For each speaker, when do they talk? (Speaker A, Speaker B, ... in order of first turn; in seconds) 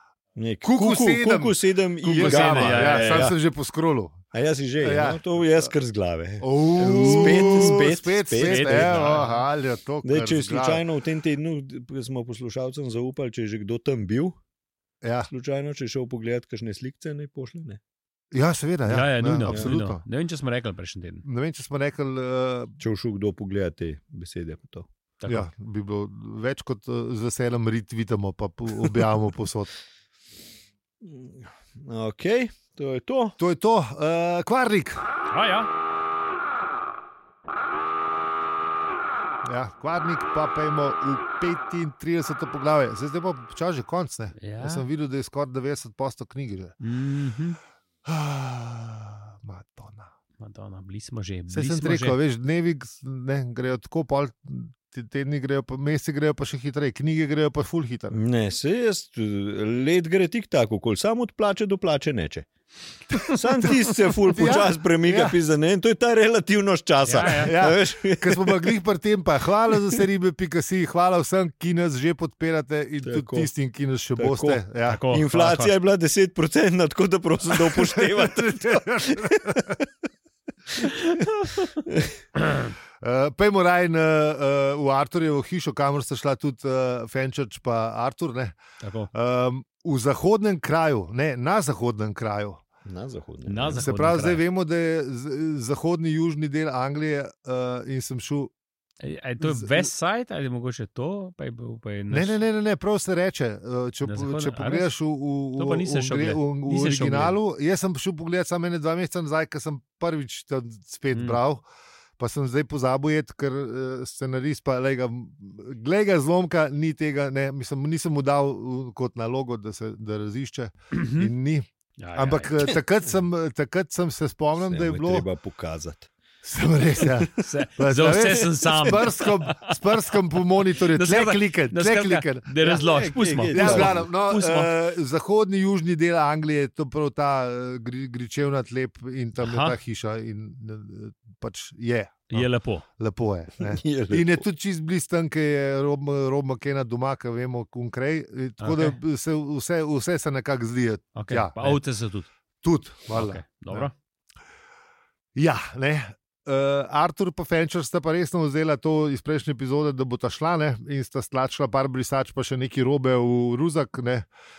Speaker A: 0.3-3.4, 4.3-9.2, 10.0-14.4, 15.3-17.8, 19.5-19.7, 22.8-24.9, 31.0-33.4, 58.1-62.5, 63.2-68.7, 73.0-73.5, 74.2-79.8, 81.8-82.1, 92.8-93.8, 124.6-126.1, 132.6-134.1, 143.6-144.4
Speaker B: 0.6-4.2, 4.8-5.7, 6.4-10.8, 15.0-15.3, 18.3-20.0, 21.2-22.8, 25.3-29.7, 33.4-35.0, 39.4-46.7, 48.0-50.1, 51.5-58.2, 63.6-64.7, 67.2-75.0, 77.5-79.8, 83.0-88.5, 89.1-92.6, 93.7-98.5, 99.4-99.9, 102.1-111.6, 112.2-125.2, 126.4-132.8, 133.5-151.8, 152.6-153.9, 155.3-164.3
Speaker C: 2.1-3.3, 6.8-7.8, 8.4-9.4, 18.9-21.2, 25.2-25.5, 35.3-35.7, 44.4-44.9, 46.8-47.6, 50.4-52.2, 65.1-65.3, 67.0-67.5, 74.9-75.7, 80.8-81.7, 88.8-89.1, 93.5-94.4, 99.0-102.4, 104.0-104.9, 105.5-107.3, 111.1-111.4, 120.9-121.3, 122.0-122.8, 127.4-129.7, 130.9-134.7, 139.4-139.8, 142.3-142.8, 148.6-149.0, 151.1-152.3, 153.1-153.9